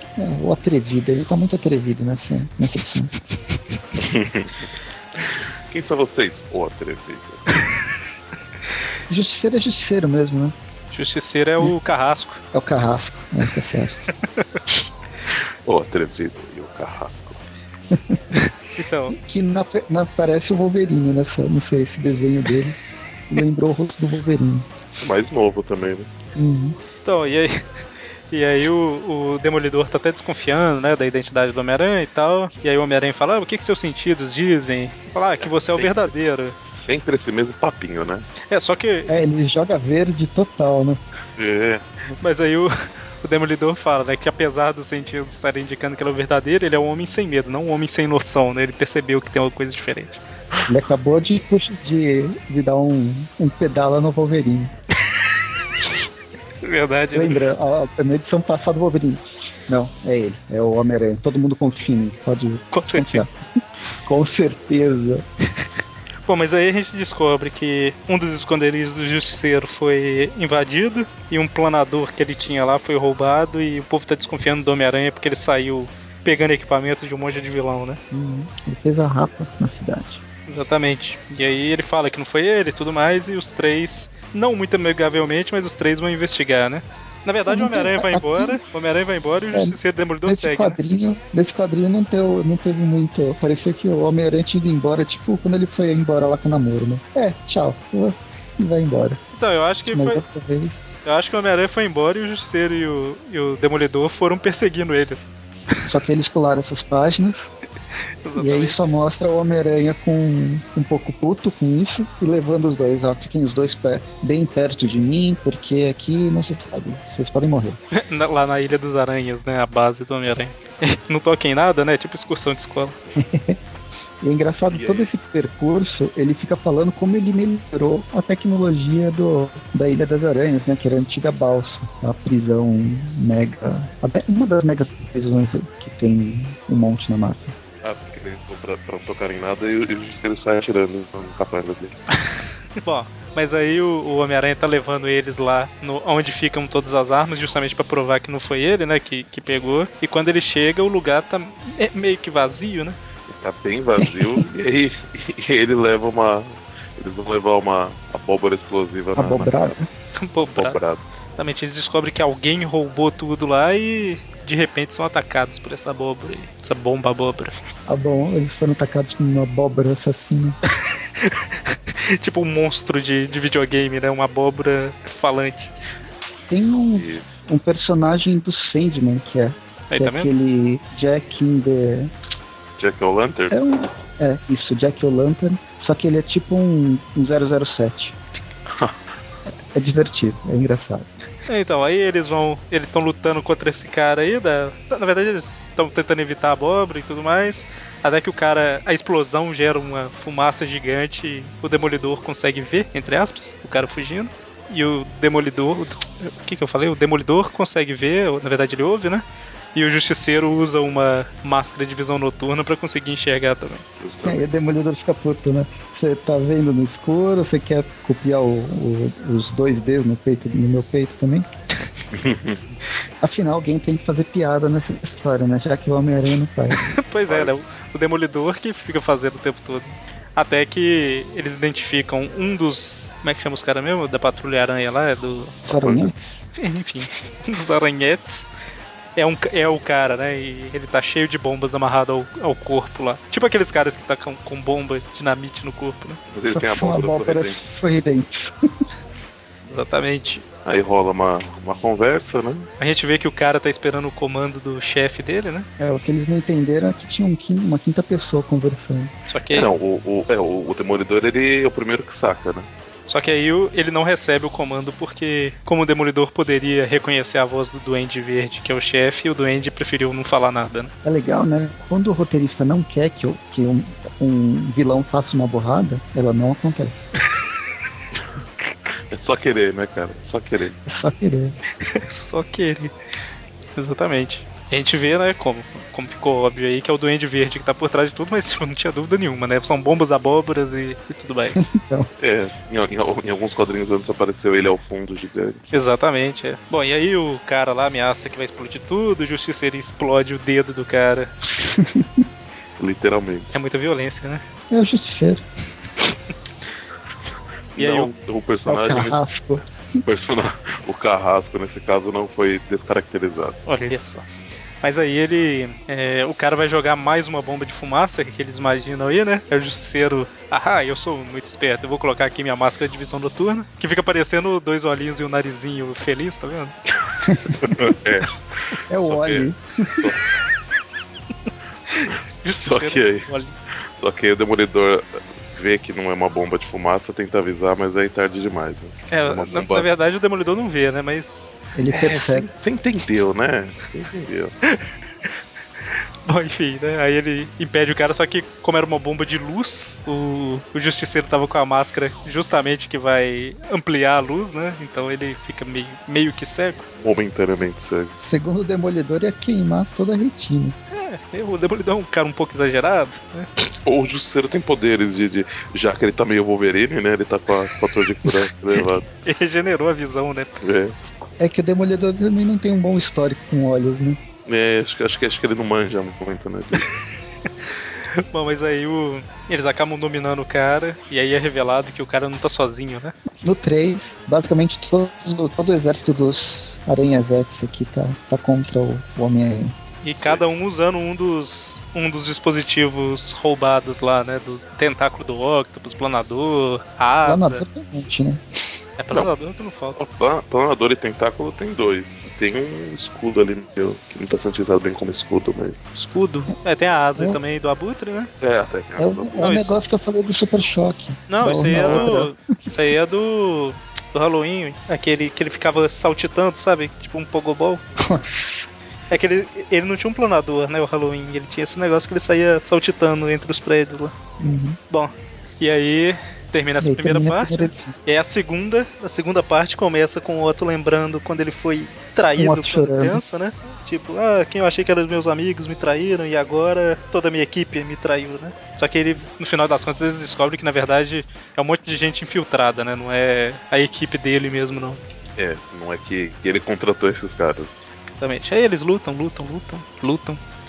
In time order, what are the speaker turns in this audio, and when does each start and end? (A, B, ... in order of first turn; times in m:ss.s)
0:00.2-0:03.1 A
0:04.0-0:04.5 B
0:05.7-0:07.5 B
0:09.1-0:10.6 A
0:10.9-0:12.4 C
0:12.5-0:14.0 A
0:15.6-0:17.4 B
0:17.9-0:18.2 A
0:18.8-0:19.2 C
0:19.1-0:22.8 A
0:23.3-0:24.7 A
0:25.0-0:26.1 B
0:26.4-0:26.8 A
0:27.0-0:27.6 C
0:28.3-0:36.6 C
0:35.4-0:36.1 B
0:36.8-0:38.3 B
0:38.5-0:39.2 C
0:39.1-0:41.0 A
0:41.4-0:41.9 B
0:42.2-0:50.2 C
0:50.7-0:54.7 A
0:56.6-0:57.5 C
0:57.1-1:03.3 A
1:02.7-1:03.3 C
1:04.0-1:05.2 A
1:06.3-1:18.0 C
1:18.1-1:20.2 A
1:20.5-1:30.8 C
1:27.5-1:28.6 A
1:29.5-1:39.2 A
1:39.4-1:40.2 C
1:39.9-1:41.0 A
1:41.0-1:45.3 C
1:45.8-1:47.5 A
1:48.2-1:48.8 C
1:48.4-1:57.8 A
1:57.9-2:03.0 C
2:03.2-2:03.6 A
2:04.2-2:17.6 A
2:04.7-2:05.1 B
2:17.8-2:22.0 B
2:22.8-2:33.0 C
2:33.3-2:39.8 B
2:34.0-2:34.4 A
2:39.2-2:39.9 A
2:40.2-2:40.8 C
2:40.5-2:41.0 B
2:41.4-2:47.6 C
2:47.9-2:50.6 A
2:51.2-2:55.7 C
2:56.5-3:02.1 A
2:56.9-2:57.3 B
2:59.9-3:00.3 C
3:02.8-3:03.6 B
3:03.5-3:08.2 A
3:09.7-3:11.1 A
3:11.5-3:29.2 C
3:29.8-3:33.8 C
3:34.0-3:34.4 B
3:34.2-3:41.5 A
3:42.1-3:42.7 B
3:43.2-3:46.9 A
3:46.8-3:55.6 C
3:47.3-3:47.5 B
3:55.7-3:56.2 A
3:55.7-3:56.1 B
3:56.6-3:58.5 C
3:59.2-4:06.2 C
4:06.3-4:07.6 B
4:06.5-4:08.5 A
4:09.7-4:10.4 C
4:10.6-4:12.7 B
4:12.8-4:15.7 C
4:15.8-4:19.1 A
4:19.3-4:19.7 C
4:19.5-4:22.7 B
4:23.1-4:30.9 C
4:31.0-4:37.0 A
4:39.1-4:40.8 B
4:40.9-4:41.6 A
4:41.8-4:42.9 C
4:43.8-4:51.6 C
4:51.6-4:52.1 A
4:52.2-4:55.6 B
4:55.7-5:01.3 C
5:01.6-5:02.2 A
5:02.8-5:03.5 B
5:03.5-5:04.4 C
5:04.7-5:05.4 A
5:07.8-5:09.2 B
5:07.8-5:08.1 C
5:08.7-5:09.6 A
5:10.0-5:13.6 B
5:13.7-5:14.3 C
5:14.8-5:26.8 C
5:27.2-5:28.0 A
5:27.6-5:28.3 B
5:28.9-5:30.1 A
5:29.1-5:30.2 B
5:31.9-5:33.6 C
5:32.1-5:33.3 B
5:34.0-5:39.9 B
5:39.1-5:41.6 C
5:41.8-5:42.5 A
5:41.9-5:44.5 B
5:46.2-5:56.9 C
5:57.0-5:58.1 B
5:58.2-6:00.8 A
6:00.9-6:03.5 C
6:03.8-6:09.1 B
6:09.2-6:10.6 C
6:10.6-6:11.0 B
6:11.4-6:14.2 A
6:14.5-6:16.9 B
6:18.1-6:23.2 C
6:23.4-6:29.8 A
6:30.0-6:37.6 C
6:30.1-6:30.4 B
6:37.2-6:38.4 A
6:39.0-6:40.0 C
6:40.0-6:45.8 B
6:46.0-6:48.3 C
6:48.4-6:49.6 B
6:49.0-6:52.3 A
6:49.4-6:49.8 C
6:51.3-6:57.8 C
6:51.7-6:52.1 B
6:58.0-6:58.6 A
6:59.1-7:04.1 C
7:04.4-7:04.8 A
7:04.9-7:25.0 C
7:06.8-7:08.0 A
7:12.4-7:13.2 A
7:25.4-7:27.7 B
7:28.2-7:30.4 C